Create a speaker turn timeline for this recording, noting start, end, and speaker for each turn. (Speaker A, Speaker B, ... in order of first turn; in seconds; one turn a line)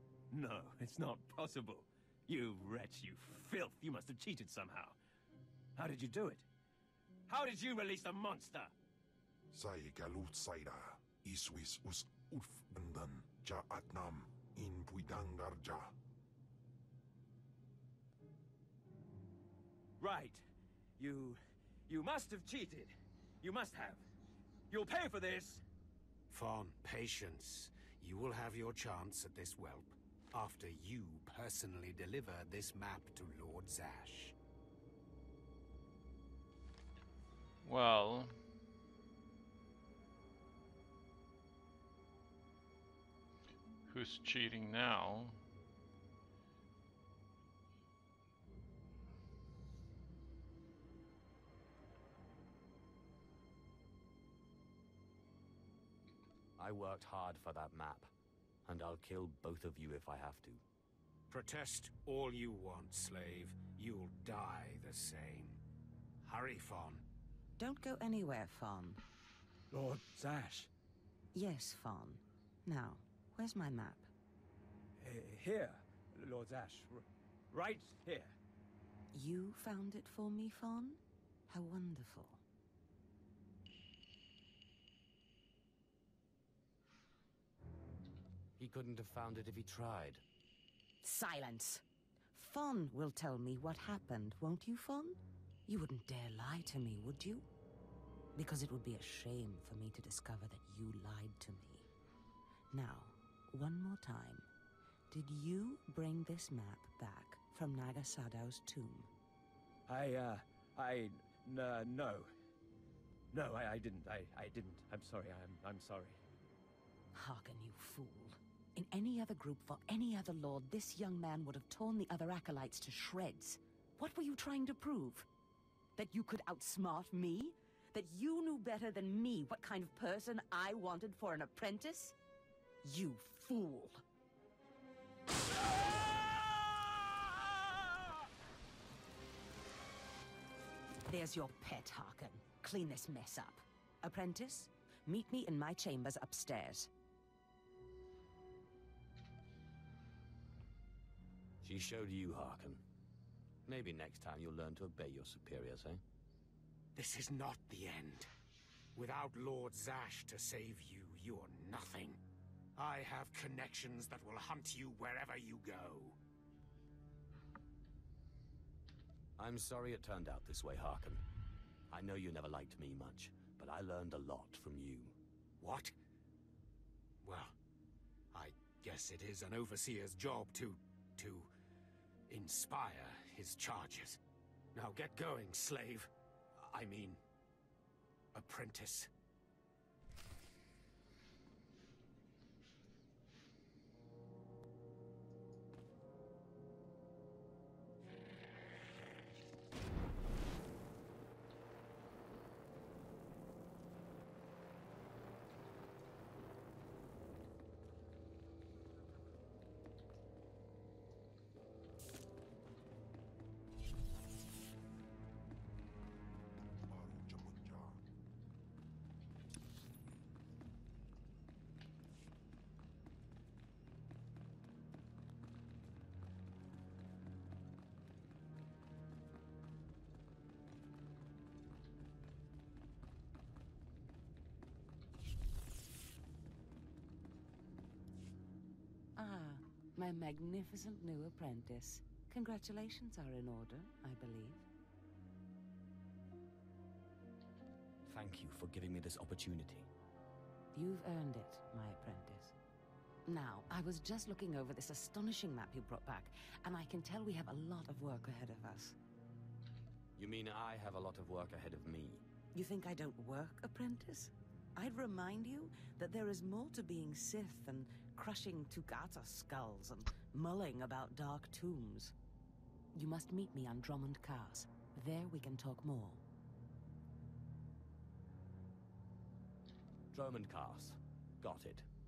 Speaker A: 0.3-5.0
Speaker A: 5.8-6.5
Speaker A: 7.3-8.7
Speaker B: 9.5-15.9
Speaker A: 20.0-20.4
Speaker A: 21.0-24.0
Speaker A: 24.7-25.6
Speaker C: 26.3-34.3
Speaker D: 37.6-38.4
Speaker D: 43.9-45.4
Speaker E: 56.6-58.1
Speaker E: 58.6-60.6
Speaker C: 61.3-65.6
Speaker C: 66.2-67.0
Speaker F: 67.6-69.0
Speaker A: 69.7-70.7
Speaker F: 71.3-74.1
Speaker A: 75.0-78.3
Speaker F: 79.1-82.4
Speaker E: 88.6-90.2
Speaker F: 91.0-91.8
Speaker F: 92.3-97.4
Speaker F: 98.3-101.9
Speaker F: 102.7-104.5
Speaker F: 105.1-109.1
Speaker A: 109.9-112.3
Speaker A: 113.3-116.2
Speaker F: 117.1-125.3
Speaker F: 126.0-132.1
Speaker F: 132.8-134.0
Speaker F: 141.1-146.9
Speaker E: 151.6-152.8
Speaker E: 153.7-156.0
Speaker C: 156.9-158.3
Speaker C: 158.9-162.2
Speaker C: 162.8-166.2
Speaker E: 169.4-171.2
Speaker E: 171.9-175.2
Speaker C: 175.6-175.9
Speaker C: 177.2-177.5
Speaker C: 178.3-181.5
Speaker C: 182.3-184.2
Speaker C: 184.7-187.2
Speaker C: 188.3-189.1
Speaker B: 216.9-218.0
Speaker F: 239.2-244.6
Speaker E: 248.1-249.9
Speaker F: 250.7-252.5
Speaker F: 253.2-258.9
Speaker E: 260.2-262.2
Speaker F: 262.5-272.1
Speaker F: 272.9-276.2
Speaker E: 280.1-281.9